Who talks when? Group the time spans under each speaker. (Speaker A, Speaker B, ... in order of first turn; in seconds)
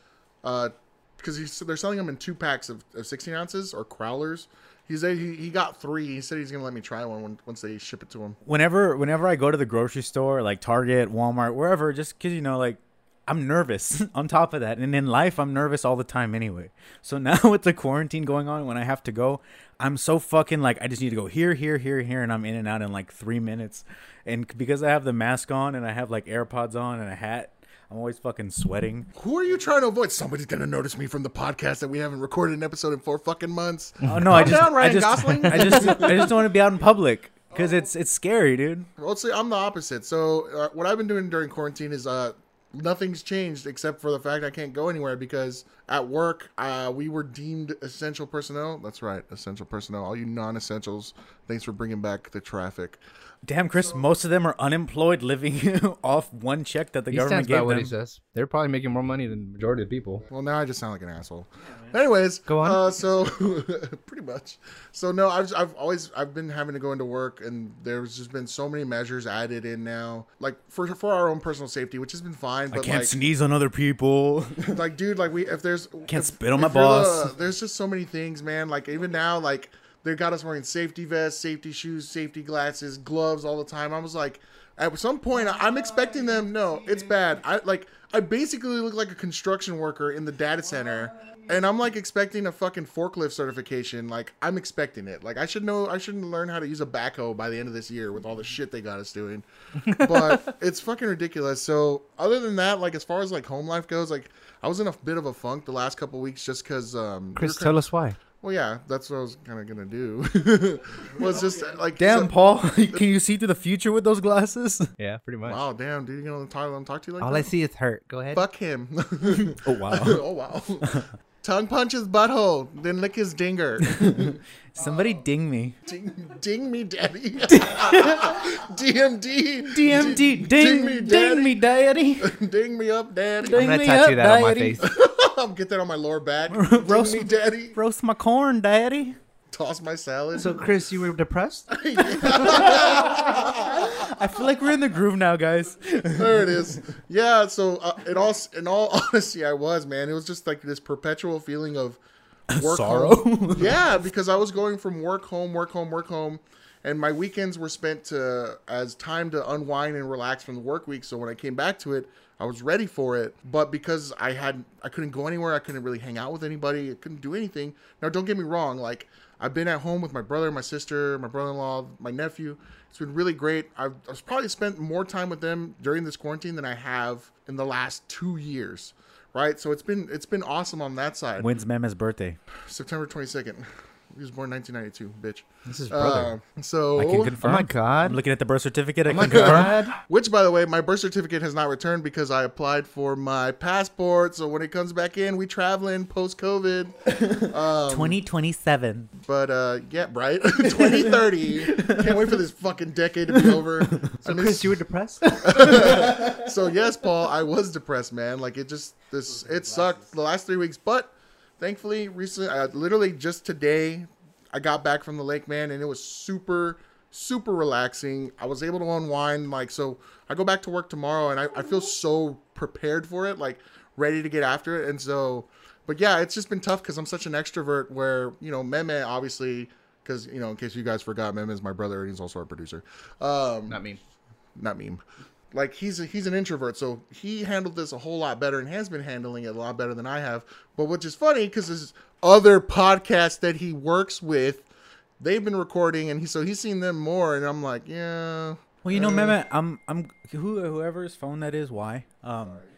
Speaker A: 0.4-8.4, 29.1-36.3, 39.0-53.0, 60.3-73.2, 74.6-107.8, 108.3-112.3, 115.5-117.5, 118.3-124.4, 125.8-131.6, 132.2-133.7, 134.8-137.8, 139.5-140.6, 141.7-143.9, 146.1-152.0, 152.5-181.5, 182.7-187.3, 189.3-198.2, 199.2-204.8, 205.4-233.8, 234.6-244.7, 245.2-249.4
Speaker B: 8.4-29.1, 34.1-38.9, 53.4-57.9, 72.7-74.8, 76.1-77.3, 112.0-114.9, 119.5-120.2, 123.8-125.8, 127.5-128.3, 129.7-132.3, 133.5-134.8, 136.5-139.2, 142.3-146.6, 152.5-153.7, 181.4-182.4, 187.0-189.7, 197.1-199.1, 200.7-202.4, 203.4-204.1, 205.5-206.3, 248.8-252.6
Speaker C: 34.0-34.7, 57.1-60.2, 62.5-62.8, 99.9-100.4, 107.3-108.2, 115.0-115.6, 117.2-118.4, 133.5-134.9, 140.3-141.7, 185.7-186.3, 187.4-188.2, 189.1-189.9, 204.2-205.9, 233.7-234.0